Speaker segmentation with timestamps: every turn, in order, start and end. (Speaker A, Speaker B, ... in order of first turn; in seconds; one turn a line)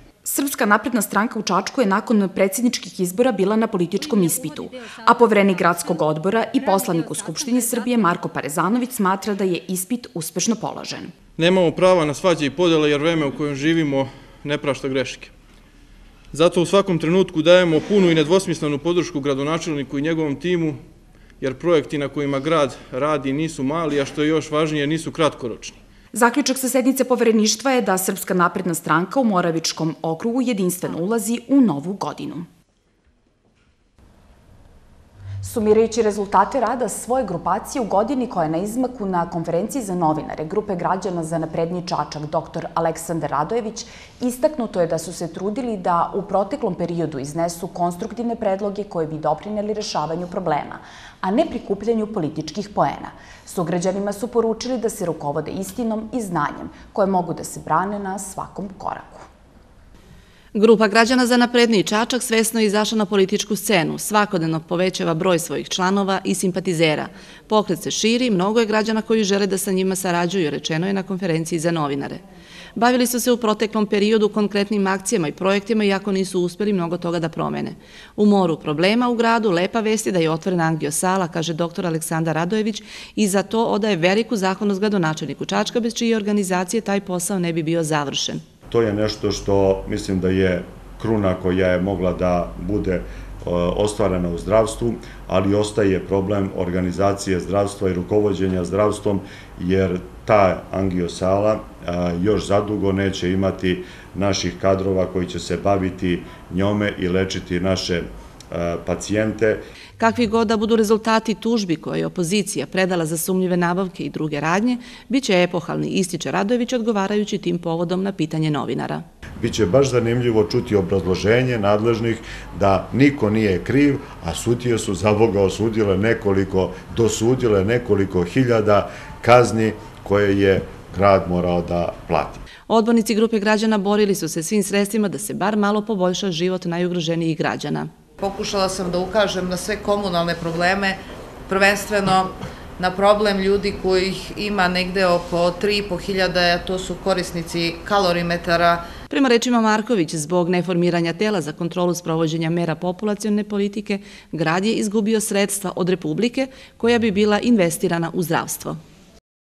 Speaker A: 0.2-11.1
Speaker B: 11.4-15.3
Speaker B: 16.3-20.8
Speaker B: 21.4-25.8
Speaker A: 26.1-32.5
Speaker A: 35.4-59.3
Speaker C: 60.5-72.2
Speaker C: 72.8-88.4
Speaker D: 88.7-109.6
Speaker C: 110.0-119.0
Speaker D: 119.4-132.4
Speaker C: 132.7-137.9
Speaker E: 138.2-148.9
Speaker C: 149.1-158.8